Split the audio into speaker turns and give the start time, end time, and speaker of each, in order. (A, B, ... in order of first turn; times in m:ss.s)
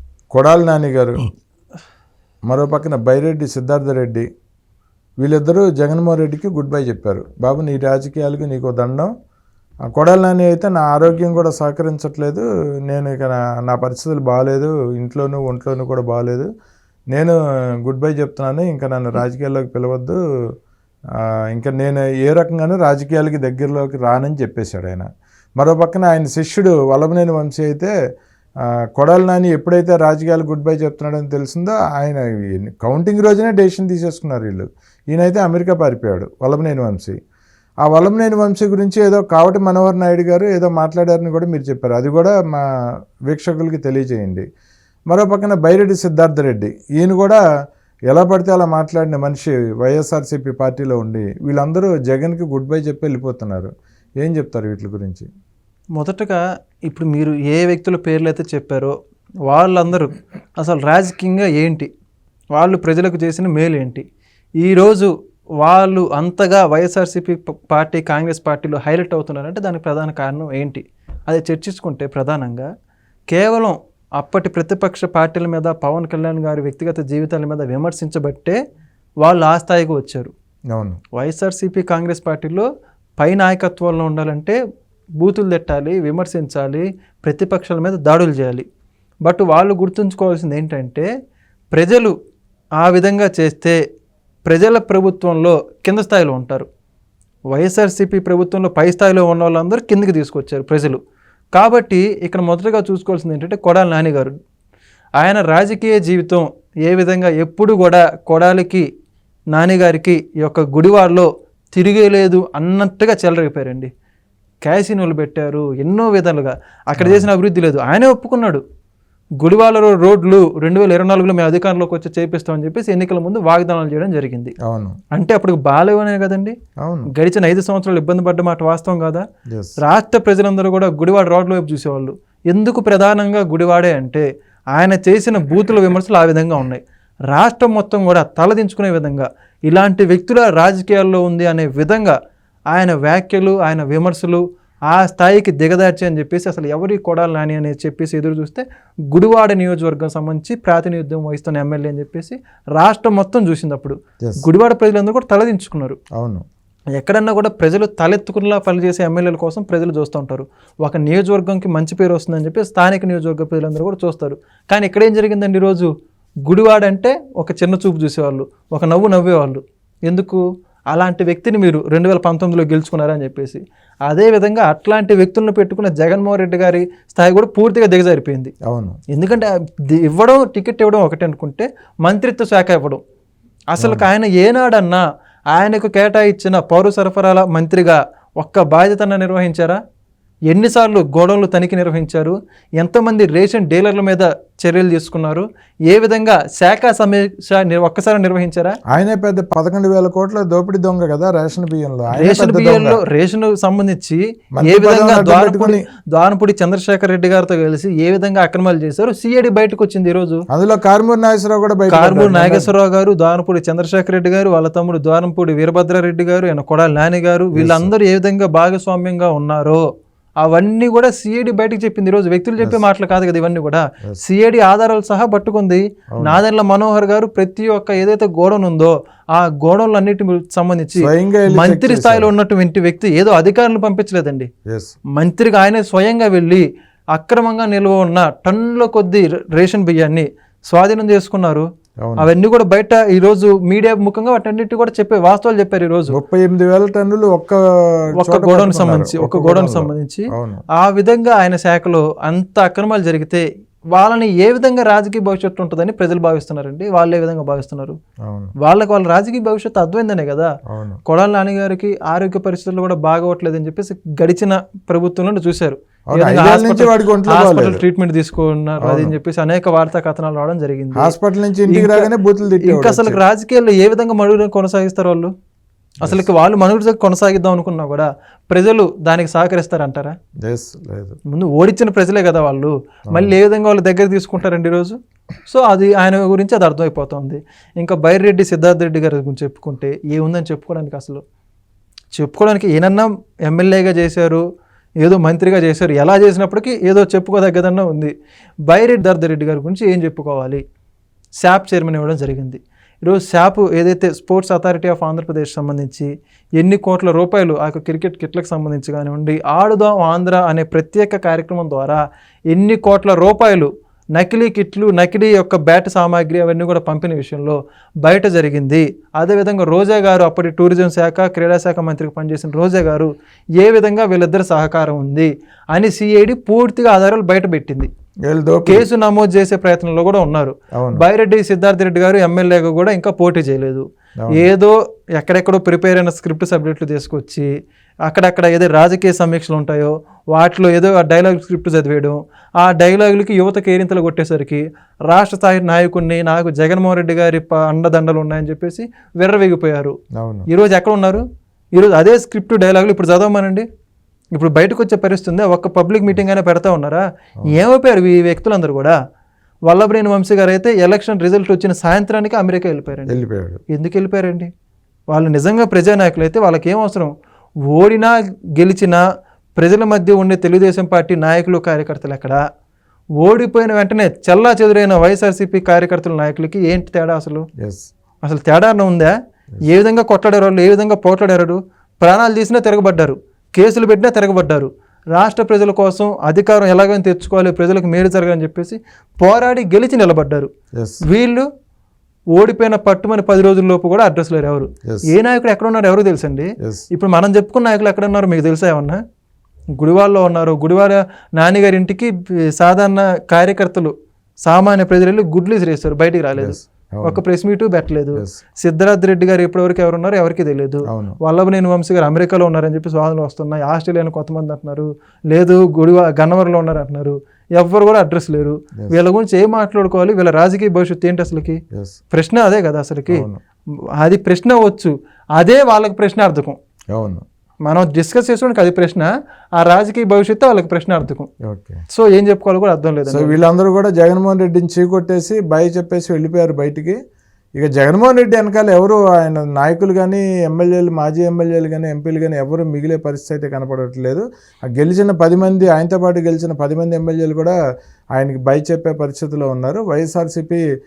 0:00.3-0:01.3 A
0:02.5-0:04.2 A
0:05.2-0:09.1 A
0:09.9-0:16.5 A
0:17.9-0:20.2 A
0:21.5-0:25.1 A
0:25.6-0:27.9 A
0:29.0-0:37.2 A
0:37.9-0:42.6 A
0:43.3-0:44.4 A
0:45.1-0:47.4 A
0:48.1-0:53.7 A
0:54.2-0:55.3 A
0:56.0-0:58.9 B
0:59.5-1:01.9 B
1:02.5-1:04.0 B
1:04.6-1:12.7 B
1:13.3-1:18.6 B
1:19.2-1:20.3 B
1:20.7-1:21.0 A
1:21.1-1:22.7 B
1:23.2-1:24.6 B
1:25.2-1:28.7 B
1:29.2-1:31.1 B
1:31.7-1:32.1 B
1:32.8-1:33.8 B
1:34.5-1:36.7 B
1:37.5-1:41.0 B
1:41.5-1:44.3 B
1:45.2-1:48.9 B
1:49.5-1:53.9 B
1:54.6-1:58.6 B
1:57.0-1:57.3 A
1:59.4-2:04.5 B
2:04.6-2:05.0 A
2:05.1-2:06.6 B
2:06.8-2:07.1 A
2:07.1-2:09.2 B
2:09.5-2:09.8 A
2:09.8-2:22.2 B
2:22.7-2:36.0 B
2:36.1-2:36.4 A
2:36.9-2:45.9 B
2:46.4-2:58.5 B
2:58.7-2:59.0 A
2:59.1-3:03.0 B
3:03.7-3:09.8 B
3:03.8-3:04.1 A
3:10.5-3:18.8 B
3:18.9-3:23.0 A
3:22.1-3:30.4 B
3:24.6-3:25.8 A
3:30.5-3:32.7 A
3:31.9-3:39.9 B
3:37.5-3:37.9 A
3:40.4-3:54.5 B
3:46.2-3:46.4 A
3:51.0-3:52.3 A
3:54.7-3:54.9 A
3:55.1-4:01.7 B
4:02.0-4:02.3 A
4:02.2-4:06.2 B
4:06.1-4:10.6 A
4:08.2-4:18.0 B
4:18.2-4:18.5 A
4:18.6-4:20.5 B
4:20.7-4:21.0 A
4:21.1-4:31.2 B
4:26.1-4:27.8 A
4:28.8-4:29.2 A
4:30.9-4:33.2 A
4:31.7-4:32.1 B
4:32.6-4:35.3 B
4:36.0-4:40.1 B
4:40.4-4:41.2 A
4:41.3-4:51.2 B
4:52.2-4:54.4 B
4:55.0-4:58.1 B
4:58.7-5:00.6 B
5:01.4-5:27.9 B
5:28.3-5:28.9 A
5:28.6-5:37.5 B
5:30.7-5:31.0 A
5:34.2-5:34.5 A
5:38.0-5:50.0 B
5:50.2-5:50.5 A
5:50.5-5:51.2 B
5:51.8-5:53.7 B
5:54.4-5:59.0 B
5:59.7-6:04.5 B
6:03.1-6:03.6 A
6:05.1-6:07.1 B
6:07.6-6:09.0 B
6:09.6-6:12.4 B
6:13.2-6:17.5 B
6:17.6-6:17.9 A
6:18.2-6:30.5 B
6:30.8-6:31.0 A
6:31.0-6:31.5 B
6:32.3-6:39.0 B
6:34.9-6:35.1 A
6:36.6-6:36.9 A
6:39.8-7:01.6 B
6:46.4-6:47.2 A
6:48.2-6:48.4 A
6:50.9-6:51.2 A
7:02.1-7:03.3 B
7:03.1-7:03.4 A
7:04.0-7:06.6 B
7:06.9-7:07.2 A
7:07.7-7:11.3 B
7:11.4-7:11.8 A
7:11.9-7:13.4 B
7:13.1-7:17.0 A
7:17.6-7:27.5 A
7:28.2-7:30.6 A